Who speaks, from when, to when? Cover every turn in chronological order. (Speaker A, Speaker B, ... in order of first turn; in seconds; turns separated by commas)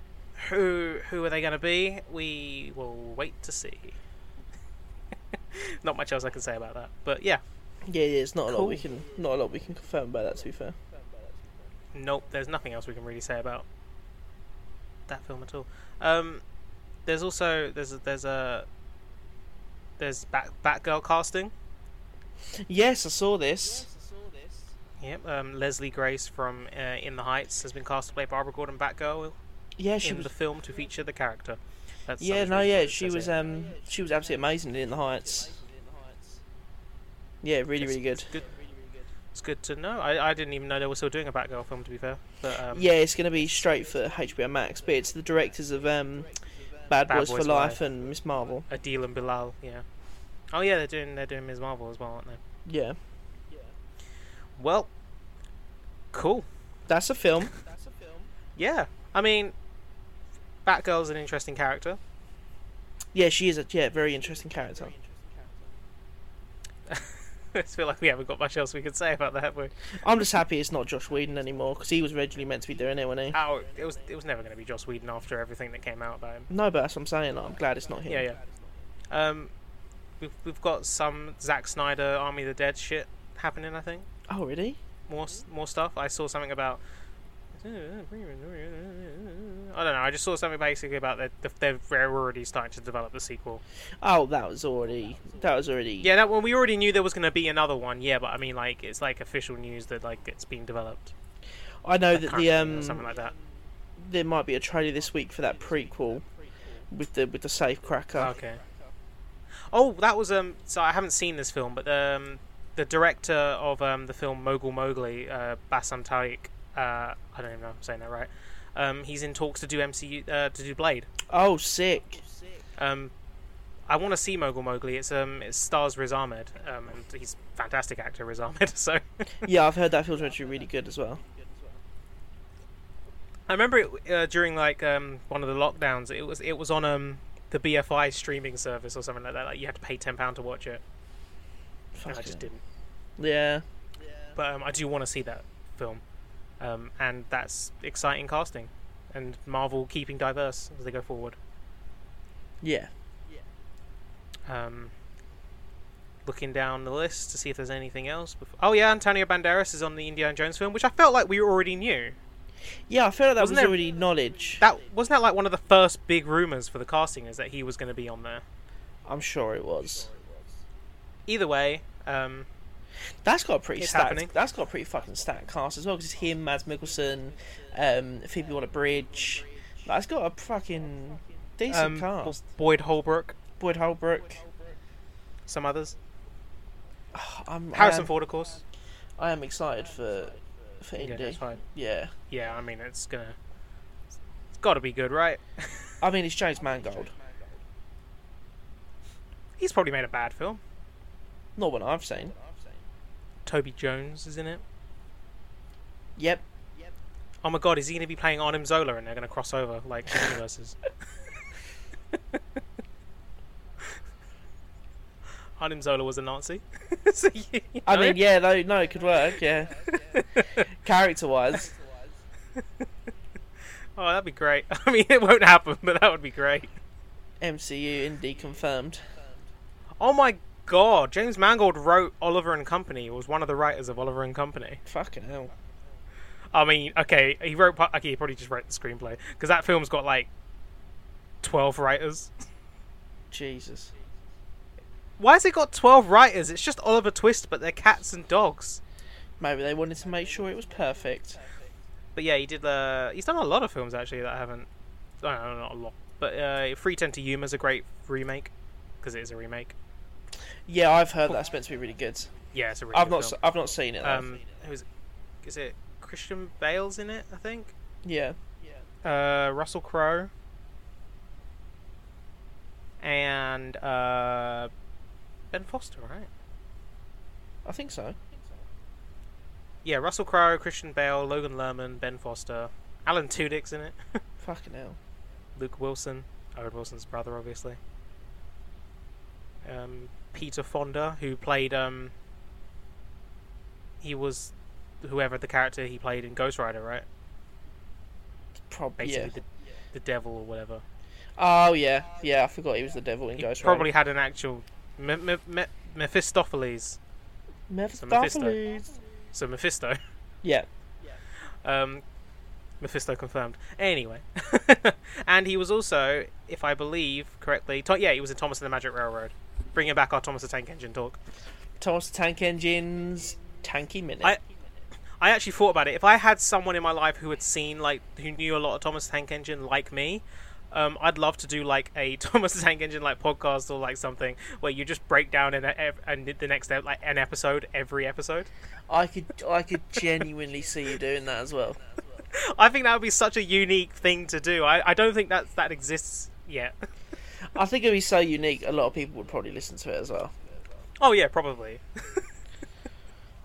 Speaker A: 0.4-4.0, Speaker A: 5.3-7.4, Speaker B: 7.8-10.8, Speaker A: 8.5-8.8, Speaker A: 11.9-13.7, Speaker A: 15.1-16.4, Speaker A: 17.1-18.7, Speaker A: 20.0-21.5, Speaker B: 22.5-23.9, Speaker A: 25.0-29.4, Speaker B: 29.8-30.3, Speaker A: 30.0-33.4, Speaker B: 32.2-35.6, Speaker B: 37.4-38.3, Speaker A: 37.8-38.5, Speaker A: 39.3-42.9, Speaker B: 42.7-46.3, Speaker B: 46.9-48.7, Speaker A: 47.1-47.8, Speaker A: 48.7-49.8, Speaker A: 50.5-52.4, Speaker B: 52.6-53.0, Speaker A: 54.6-54.9, Speaker A: 56.1-56.5, Speaker B: 56.9-57.5, Speaker A: 58.5-59.5, Speaker A: 60.6-62.0, Speaker B: 63.1-65.0, Speaker A: 66.9-69.7, Speaker B: 69.9-73.4, Speaker A: 73.3-76.5, Speaker B: 76.5-78.3, Speaker A: 78.1-78.4, Speaker A: 79.1-79.5, Speaker A: 80.2-84.1, Speaker B: 84.3-84.8, Speaker A: 85.1-86.8, Speaker A: 87.5-93.6, Speaker B: 94.0-96.1, Speaker A: 96.0-101.1, Speaker B: 101.8-103.1, Speaker A: 102.1-103.3, Speaker B: 104.0-106.2, Speaker B: 106.9-108.3, Speaker A: 108.2-108.6, Speaker A: 109.7-121.1, Speaker B: 121.3-122.2, Speaker A: 122.8-123.1, Speaker A: 123.9-129.5, Speaker B: 129.4-131.2, Speaker A: 133.5-140.8, Speaker B: 141.9-142.5, Speaker A: 142.1-142.6, Speaker B: 143.2-143.6, Speaker A: 144.3-146.0, Speaker A: 146.6-151.4, Speaker B: 152.6-152.9, Speaker A: 154.5-154.9, Speaker A: 156.2-162.2, Speaker B: 162.9-164.6, Speaker A: 163.4-163.8, Speaker A: 164.6-168.4, Speaker B: 169.1-170.1, Speaker A: 171.3-172.5, Speaker B: 173.2-182.4, Speaker A: 173.8-174.3, Speaker A: 181.7-183.4, Speaker B: 183.6-184.4, Speaker A: 185.5-185.9, Speaker B: 187.1-188.1, Speaker A: 187.7-188.6, Speaker B: 189.2-192.1, Speaker A: 191.0-191.6, Speaker A: 192.3-193.3, Speaker A: 194.6-195.9, Speaker B: 196.0-197.1, Speaker A: 199.6-200.6, Speaker B: 201.6-202.3, Speaker A: 203.4-204.6, Speaker B: 206.2-206.4, Speaker A: 207.4-210.8, Speaker A: 215.6-218.2, Speaker B: 217.9-220.2, Speaker A: 219.9-220.7, Speaker B: 220.7-221.7, Speaker A: 223.9-226.7, Speaker B: 227.4-229.0, Speaker A: 230.0-234.8, Speaker B: 234.8-235.5, Speaker A: 236.5-240.3, Speaker A: 241.4-242.3, Speaker B: 243.3-243.9, Speaker A: 245.2-248.8, Speaker B: 249.4-251.4, Speaker A: 252.1-254.7, Speaker A: 255.2-259.7, Speaker B: 260.7-262.3, Speaker A: 262.5-263.4, Speaker B: 262.9-264.3, Speaker A: 264.0-264.8, Speaker A: 265.4-267.7, Speaker B: 268.0-268.4, Speaker A: 269.0-270.3, Speaker A: 273.0-274.7, Speaker A: 275.5-276.3, Speaker B: 277.6-278.2, Speaker A: 279.8-284.2, Speaker B: 284.4-285.0, Speaker A: 285.6-287.8, Speaker A: 289.6-292.1, Speaker A: 294.0-297.1, Speaker B: 298.7-299.3, Speaker A: 299.0-300.8, Speaker B: 301.4-303.9, Speaker A: 303.4-307.0, Speaker B: 307.7-308.9, Speaker A: 308.0-308.6, Speaker A: 309.3-310.0, Speaker A: 311.6-312.0, Speaker A: 312.8-321.2, Speaker B: 321.8-324.4, Speaker A: 325.2-338.5, Speaker B: 338.9-341.8, Speaker A: 342.3-346.7, Speaker B: 347.5-350.3, Speaker A: 351.0-352.3